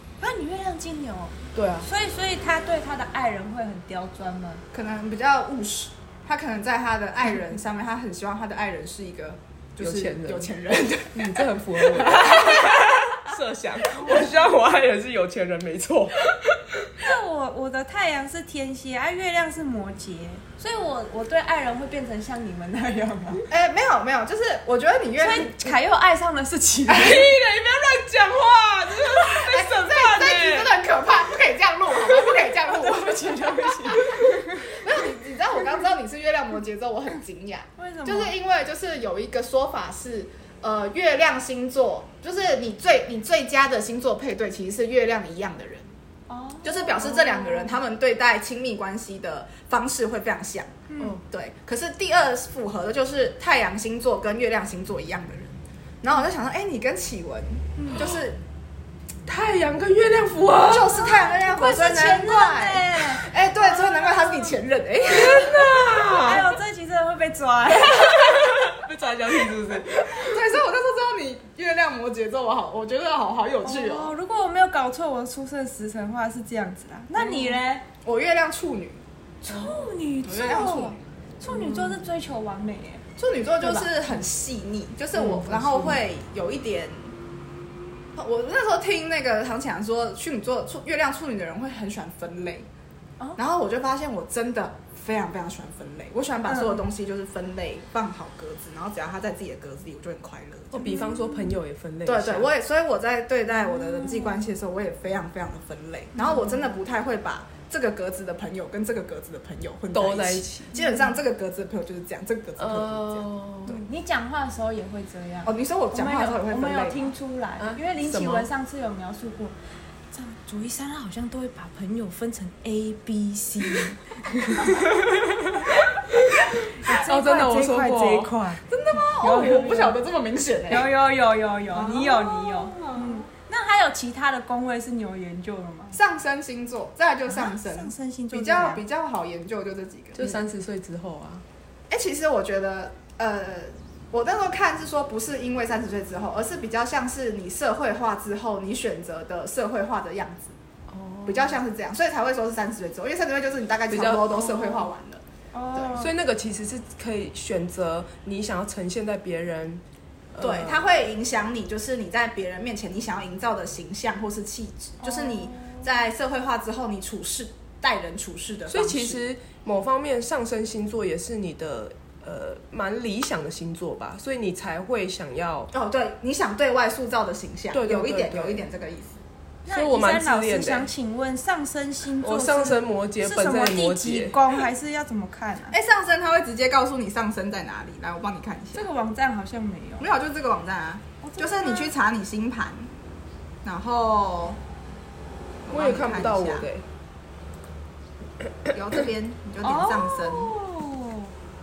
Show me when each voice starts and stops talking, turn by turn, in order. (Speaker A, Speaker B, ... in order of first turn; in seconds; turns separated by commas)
Speaker A: 0.2-4.6, Speaker B: 1.6-1.9, Speaker C: 4.7-13.0, Speaker B: 9.8-10.5, Speaker B: 11.1-17.0, Speaker A: 13.9-14.3, Speaker A: 17.0-23.4, Speaker C: 23.5-25.7, Speaker A: 25.2-27.2, Speaker B: 26.9-30.8, Speaker C: 29.1-45.9, Speaker A: 32.9-34.4, Speaker B: 33.1-33.9, Speaker A: 37.8-38.3, Speaker A: 46.3-47.8, Speaker C: 46.6-58.4, Speaker A: 50.9-51.2, Speaker A: 57.8-58.1, Speaker B: 59.3-61.1, Speaker C: 60.7-65.6, Speaker A: 61.0-64.5, Speaker B: 65.0-66.5, Speaker A: 65.2-68.2, Speaker B: 67.9-70.4, Speaker C: 70.2-74.1, Speaker A: 73.6-77.8, Speaker C: 78.0-79.0, Speaker A: 79.4-83.0, Speaker C: 80.2-81.0, Speaker B: 81.6-82.0, Speaker C: 83.2-87.2, Speaker A: 83.6-84.0, Speaker B: 85.2-86.0, Speaker C: 88.2-92.7, Speaker C: 93.4-100.9, Speaker A: 96.5-96.8, Speaker B: 100.7-102.5, Speaker A: 100.8-101.5, Speaker C: 102.1-113.3, Speaker A: 103.7-104.3, Speaker A: 106.2-106.7, Speaker B: 109.9-110.7, Speaker A: 110.8-111.1, Speaker B: 112.6-113.8, Speaker A: 113.7-119.6, Speaker C: 115.5-117.1, Speaker B: 117.6-118.5, Speaker A: 120.1-124.9, Speaker B: 124.8-125.7, Speaker A: 126.7-128.6, Speaker B: 126.8-128.3, Speaker C: 128.7-130.9, Speaker A: 129.2-130.0, Speaker A: 130.7-136.0, Speaker C: 131.8-133.1, Speaker C: 135.9-140.3, Speaker A: 137.3-138.8, Speaker B: 140.2-141.4, Speaker C: 141.9-150.6, Speaker B: 150.9-151.6, Speaker C: 151.3-155.2, Speaker B: 153.9-154.9, Speaker A: 155.5-156.1, Speaker B: 155.9-160.8, Speaker C: 160.4-169.2, Speaker A: 165.0-165.9, Speaker B: 168.7-175.7, Speaker C: 175.7-179.2, Speaker B: 177.7-178.6, Speaker A: 179.7-185.8, Speaker B: 179.7-180.9, Speaker B: 182.2-184.3, Speaker C: 185.7-188.8, Speaker A: 188.7-190.1, Speaker C: 190.0-192.9, Speaker A: 191.2-191.9, Speaker C: 193.6-194.6, Speaker C: 195.7-196.7, Speaker B: 195.7-196.8, Speaker C: 198.7-200.5, Speaker A: 199.6-201.3